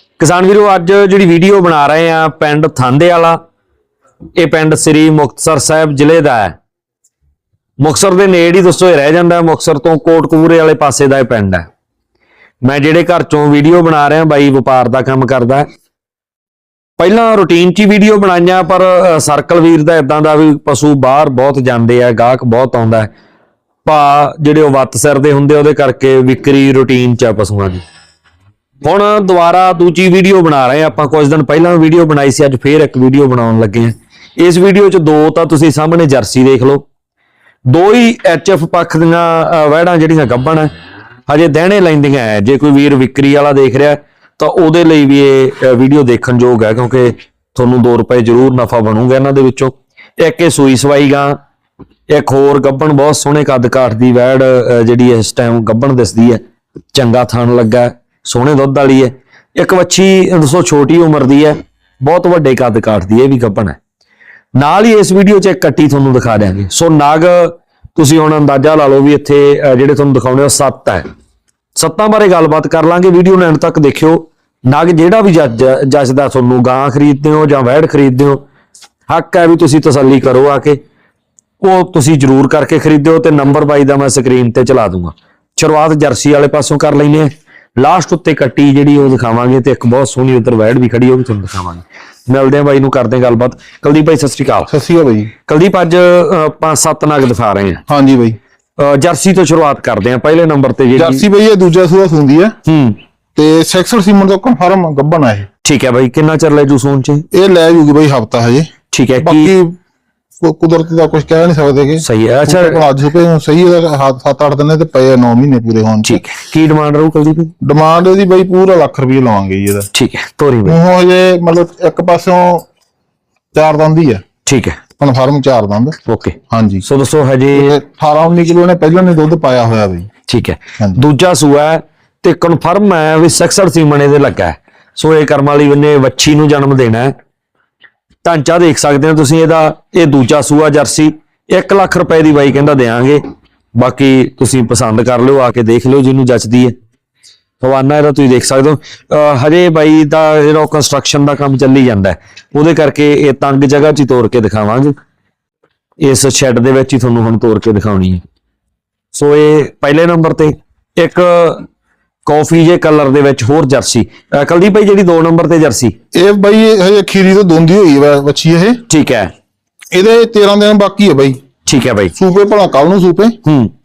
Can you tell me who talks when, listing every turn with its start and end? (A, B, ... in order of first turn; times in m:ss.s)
0:00.2-0:03.4 A
0:04.4-0:06.6 A
0:07.8-0:11.7 A
0:12.6-0:15.6 A
0:17.0-0:23.1 A
0:23.8-0:27.8 A
0:28.8-0:36.8 A
0:37.7-0:40.7 A
0:41.3-0:51.4 A
0:52.1-0:56.4 A
0:56.9-1:03.8 A
1:04.6-1:11.0 A
1:11.8-1:18.4 A
1:19.1-1:20.8 A
1:21.6-1:34.7 A
1:34.7-1:35.3 B
1:35.5-1:37.8 A
1:37.9-1:38.4 B
1:38.8-1:41.2 A
1:41.0-1:42.6 B
1:42.6-1:43.0 A
1:43.4-1:45.5 B
1:45.6-1:47.2 A
1:47.3-1:49.8 B
1:48.9-1:49.5 A
1:50.4-1:56.2 B
1:52.0-1:52.8 A
1:56.0-1:57.5 A
1:57.6-1:59.9 B
1:59.9-2:00.8 A
2:00.6-2:02.6 B
2:03.5-2:04.2 B
2:04.4-2:04.8 A
2:05.0-2:06.0 B
2:06.0-2:07.7 A
2:06.5-2:06.8 B
2:07.5-2:10.1 B
2:10.3-2:17.1 A
2:18.2-2:23.2 A
2:23.8-2:26.7 A
2:27.6-2:34.9 A
2:36.0-2:38.2 A
2:39.1-2:41.7 A
2:42.2-2:45.9 A
2:46.1-2:48.8 B
2:48.9-2:49.3 A
2:49.9-2:51.4 B
2:51.6-2:52.1 A
2:52.2-2:53.4 B
2:53.4-2:53.7 A